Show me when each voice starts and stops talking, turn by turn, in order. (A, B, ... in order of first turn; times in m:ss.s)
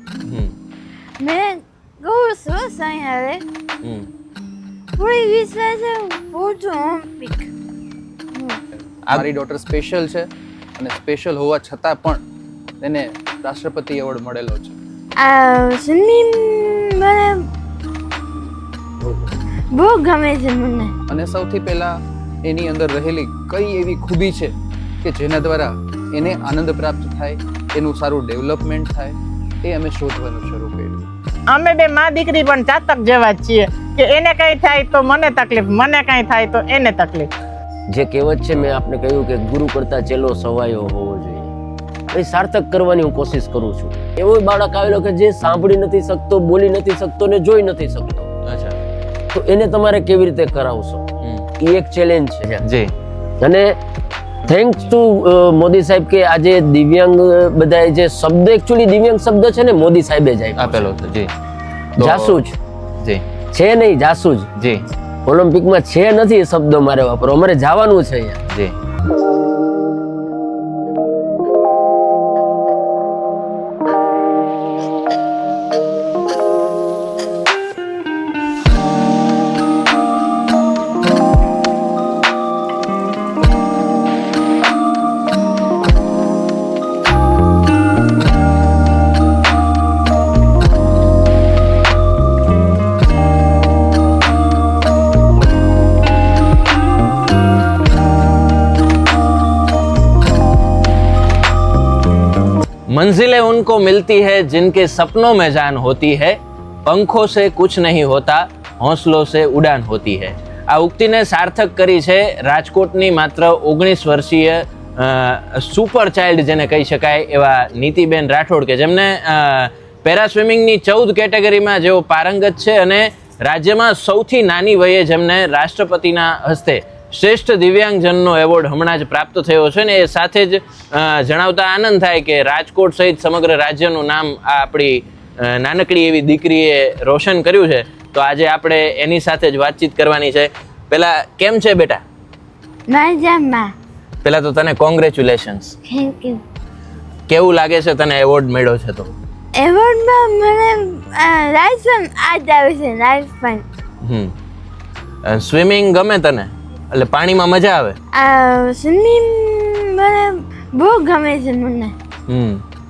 0:00.2-0:00.6 A
0:01.2-0:03.4 B
0:03.8-0:04.1 A
0:05.0-0:07.5 B
0:08.3-0:08.6 B
0:09.1-0:12.2 C
0:12.8-0:14.8 C
0:15.2-0:17.5 B
0:19.7-0:20.9 B
0:21.1-0:31.0 C
0:31.5-0:37.3 D
0:37.9-0:41.5 E
0:42.1-0:48.3 E
0:48.4-0:48.8 A
0:49.3-0:51.0 E
0:51.6-0:52.6 E
0:52.6-0:52.9 A
0:53.4-0:53.8 E
0:54.4-1:00.9 E
1:00.6-1:01.3 A
1:02.0-1:02.6 E
1:02.0-1:02.4 A
1:03.5-1:04.5 E
1:04.6-1:04.8 A
1:05.2-1:08.4 E
1:42.9-2:22.0 A
2:22.9-2:23.7 B
2:24.2-2:25.8 A
2:25.9-2:26.4 B
2:27.3-2:29.1 A
2:29.6-2:33.6 B
2:34.0-2:34.3 A
2:35.2-2:38.0 A
2:38.1-2:41.9 B
2:42.3-2:42.6 A